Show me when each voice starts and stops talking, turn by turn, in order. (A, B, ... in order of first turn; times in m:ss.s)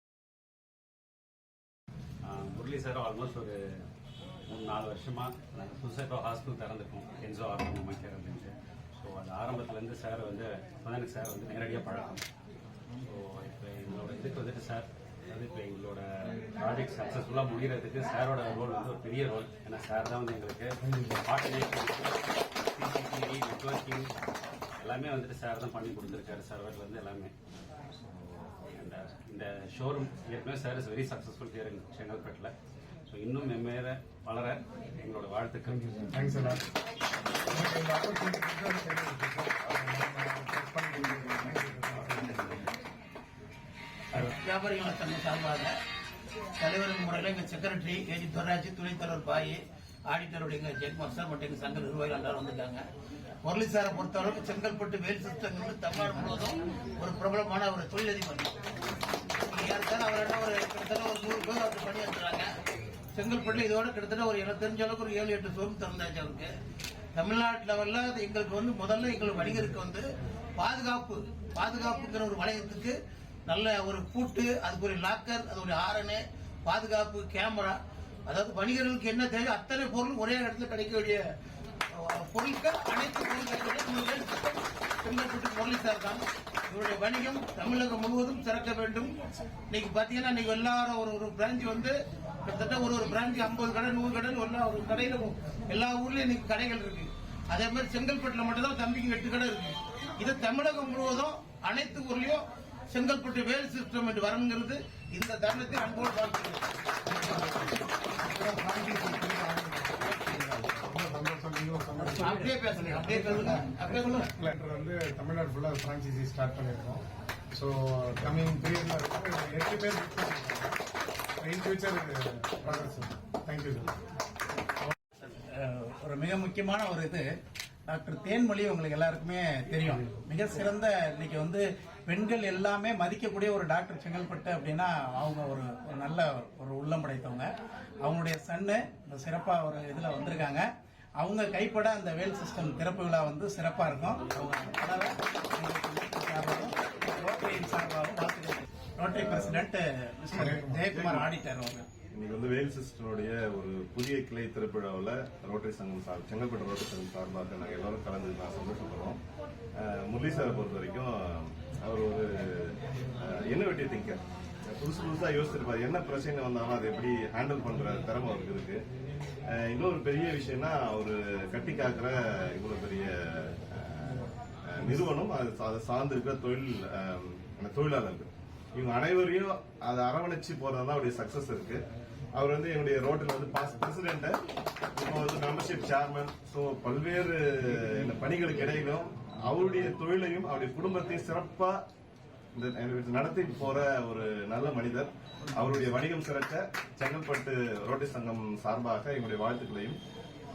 0:02.2-0:03.6 A
0:04.5-0:12.2 A
0:13.1-0:24.1 A
0:24.8-0:27.3 A
0:28.7-0:32.5 A
0:33.1-0:36.7 A
0:36.1-0:36.6 B
0:37.5-0:42.7 B
0:44.1-0:45.8 C
0:46.6-0:52.8 C
0:53.4-0:58.6 C
0:59.4-1:02.5 C
1:03.1-1:06.6 C
1:07.1-1:21.2 C
1:21.9-1:46.7 C
1:47.2-1:53.6 B
1:52.0-1:54.4 C
1:54.3-2:00.8 B
2:01.4-2:04.0 B
2:05.1-2:07.2 D
2:07.9-2:17.5 D
2:18.0-2:20.6 D
2:21.2-2:31.8 D
2:29.1-2:29.6 E
2:30.4-2:30.8 B
2:30.9-2:31.3 E
2:32.1-2:39.2 E
2:39.8-2:48.8 E
2:49.5-3:01.8 E
3:02.3-3:04.4 E
3:05.0-3:11.8 E
3:12.6-3:20.0 E